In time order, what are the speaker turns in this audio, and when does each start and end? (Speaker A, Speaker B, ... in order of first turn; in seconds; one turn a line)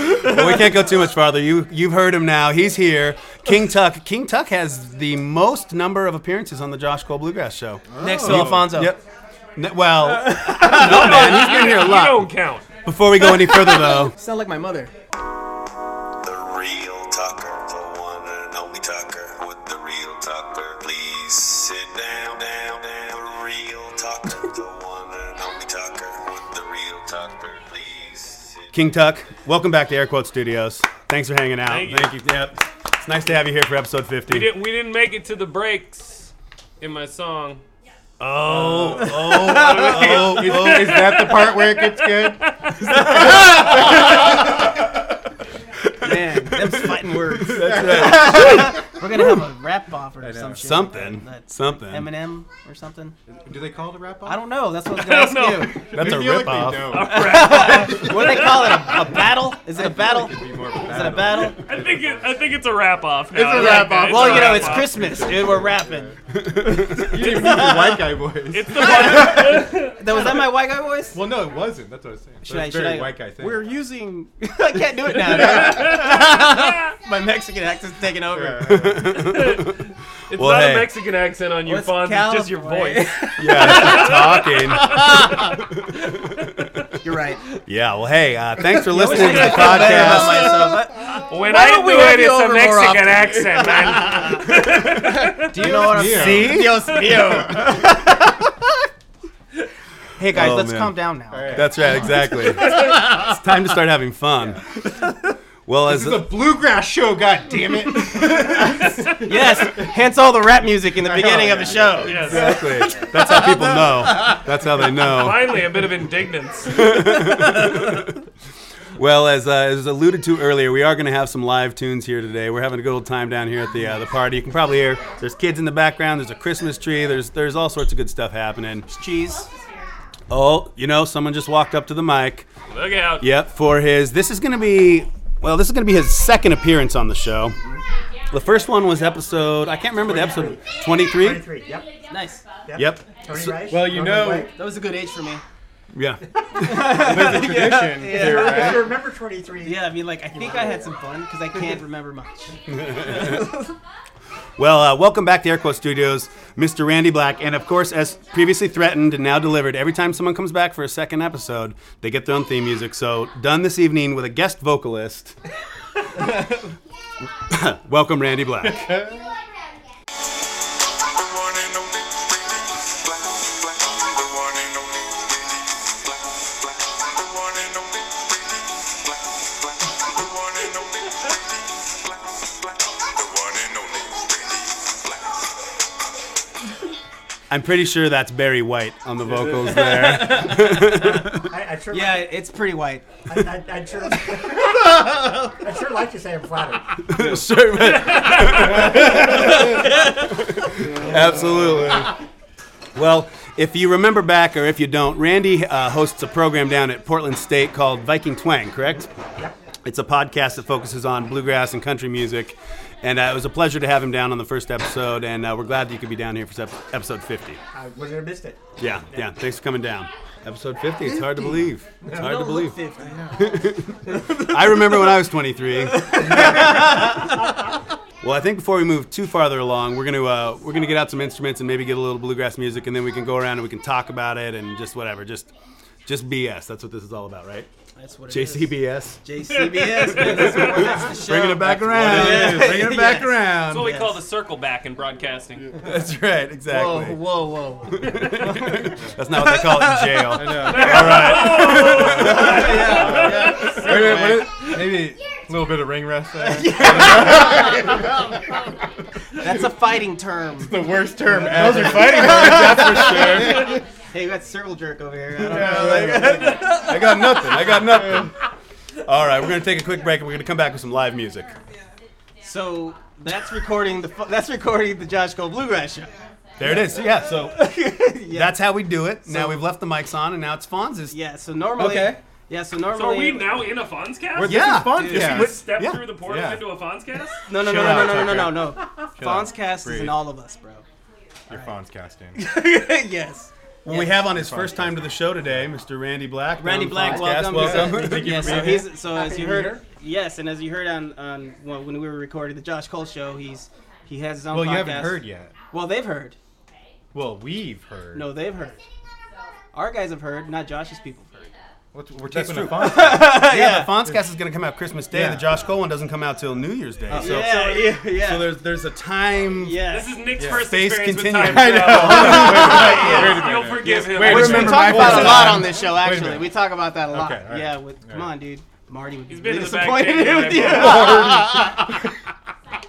Speaker A: 0.2-9.0
Speaker B: 7.9-8.9
Speaker C: 8.0-8.9
Speaker A: 9.6-12.3
Speaker C: 10.0-11.7
Speaker D: 10.6-12.7
Speaker A: 12.8-14.1
Speaker C: 13.3-14.9
Speaker E: 18.7-19.3
Speaker E: 19.9-21.6
Speaker E: 25.5-26.0
Speaker E: 26.7-27.1
Speaker A: 28.7-34.5
Speaker D: 31.7-32.1
Speaker D: 34.3-37.6
Speaker A: 38.2-41.1
Speaker D: 38.7-39.0
Speaker C: 39.0-40.3
Speaker B: 39.8-42.5
Speaker D: 40.3-43.0
Speaker C: 46.0-53.1
Speaker A: 47.5-48.7
Speaker B: 47.5-48.6
Speaker B: 50.2-50.8
Speaker A: 50.6-52.1
Speaker B: 53.3-54.4
Speaker C: 54.2-55.9
Speaker D: 54.9-55.9
Speaker A: 55.9-57.1
Speaker B: 55.9-58.1
Speaker D: 56.8-59.2
Speaker C: 57.0-61.6
Speaker B: 59.7-62.3
Speaker D: 61.6-65.1
Speaker B: 63.3-66.1
Speaker C: 63.5-66.1
Speaker B: 66.8-69.5
Speaker C: 66.9-68.2
Speaker D: 68.5-70.2
Speaker C: 68.7-71.2
Speaker B: 71.1-73.7
Speaker C: 72.4-78.9
Speaker B: 75.2-75.8
Speaker D: 75.4-76.5
Speaker B: 78.3-79.1
Speaker A: 78.7-79.8
Speaker D: 79.2-79.8
Speaker D: 80.3-84.7
Speaker A: 80.3-80.9
Speaker C: 81.7-84.2
Speaker A: 83.4-85.5
Speaker C: 87.0-87.4
Speaker A: 87.7-90.7
Speaker C: 88.8-98.4
Speaker D: 89.3-89.8
Speaker D: 91.1-95.4
Speaker B: 95.5-97.7
Speaker A: 95.9-96.9
Speaker C: 100.2-101.7
Speaker A: 100.3-101.0
Speaker B: 101.3-101.9
Speaker A: 101.5-104.6
Speaker A: 105.7-106.3
Speaker B: 105.9-109.8
Speaker C: 109.2-112.9
Speaker B: 111.0-112.6
Speaker D: 112.0-112.6
Speaker A: 112.3-115.6
Speaker D: 115.0-117.0
Speaker A: 116.7-118.1
Speaker A: 119.0-128.8
Speaker C: 128.9-129.5
Speaker A: 130.3-132.5
Speaker D: 132.7-133.2
Speaker A: 133.2-137.6
Speaker A: 138.3-141.4
Speaker F: 141.1-141.9
Speaker C: 142.1-142.4
Speaker F: 142.7-144.5
Speaker A: 142.7-143.6
Speaker B: 143.7-144.5
Speaker C: 144.5-145.4
Speaker A: 145.9-147.1
Speaker C: 146.6-148.9
Speaker B: 146.8-148.9
Speaker F: 148.1-151.0
Speaker C: 149.6-152.6
Speaker A: 152.7-153.5
Speaker C: 153.1-153.6
Speaker A: 154.6-165.3
Speaker A: 167.5-169.0
Speaker B: 168.7-169.2
Speaker A: 187.5-191.4
Speaker C: 189.8-191.0
Speaker F: 191.4-192.3
Speaker C: 191.9-193.1
Speaker F: 193.3-197.0
Speaker A: 197.1-199.4
Speaker D: 198.0-198.5
Speaker B: 198.6-199.5
Speaker A: 200.5-202.1
Speaker B: 200.8-202.1
Speaker A: 202.9-209.1
Speaker A: 209.8-217.6
Speaker F: 217.7-218.6
Speaker A: 218.8-222.8
Speaker C: 222.0-223.2
Speaker A: 223.4-227.1
Speaker C: 224.1-224.9
Speaker C: 226.0-226.5
Speaker A: 228.2-235.5
Speaker A: 236.1-237.7
Speaker C: 237.9-244.2
Speaker A: 238.3-239.2
Speaker D: 239.5-240.9
Speaker A: 240.1-243.8
Speaker B: 241.9-243.0
Speaker D: 243.7-245.8
Speaker A: 245.8-247.2
Speaker C: 246.7-248.8
Speaker A: 247.9-252.6
Speaker C: 249.3-250.4
Speaker B: 250.3-258.0
Speaker D: 250.6-254.7
Speaker C: 252.0-254.5
Speaker C: 256.4-257.9
Speaker C: 259.4-267.2
Speaker B: 260.6-263.8
Speaker B: 265.4-268.3
Speaker A: 267.5-268.3
Speaker A: 269.1-271.5
Speaker C: 272.4-276.1
Speaker A: 276.6-281.1
Speaker C: 277.4-279.7
Speaker C: 281.1-283.6
Speaker D: 282.9-287.4
Speaker B: 284.4-286.6
Speaker A: 284.4-286.1
Speaker C: 284.7-285.5
Speaker C: 287.5-290.8
Speaker B: 287.5-290.2
Speaker B: 291.5-292.4
Speaker C: 292.3-294.2
Speaker A: 293.8-298.6
Speaker B: 294.3-295.7
Speaker C: 296.6-306.4
Speaker B: 297.2-299.0
Speaker F: 299.1-299.8
Speaker B: 304.5-305.5
Speaker B: 307.1-308.3
Speaker C: 308.1-308.8
Speaker C: 309.7-311.5
Speaker B: 311.9-313.4
Speaker A: 312.3-319.9
Speaker C: 312.7-314.0
Speaker B: 315.1-315.5
Speaker C: 317.1-318.6
Speaker B: 317.1-317.5
Speaker C: 319.6-320.2
Speaker D: 319.9-325.4
Speaker B: 320.4-320.7
Speaker A: 320.5-323.1
Speaker B: 321.4-326.6
Speaker C: 321.9-323.5
Speaker C: 324.1-332.0
Speaker B: 327.1-328.3
Speaker D: 329.3-331.2
Speaker B: 330.5-331.9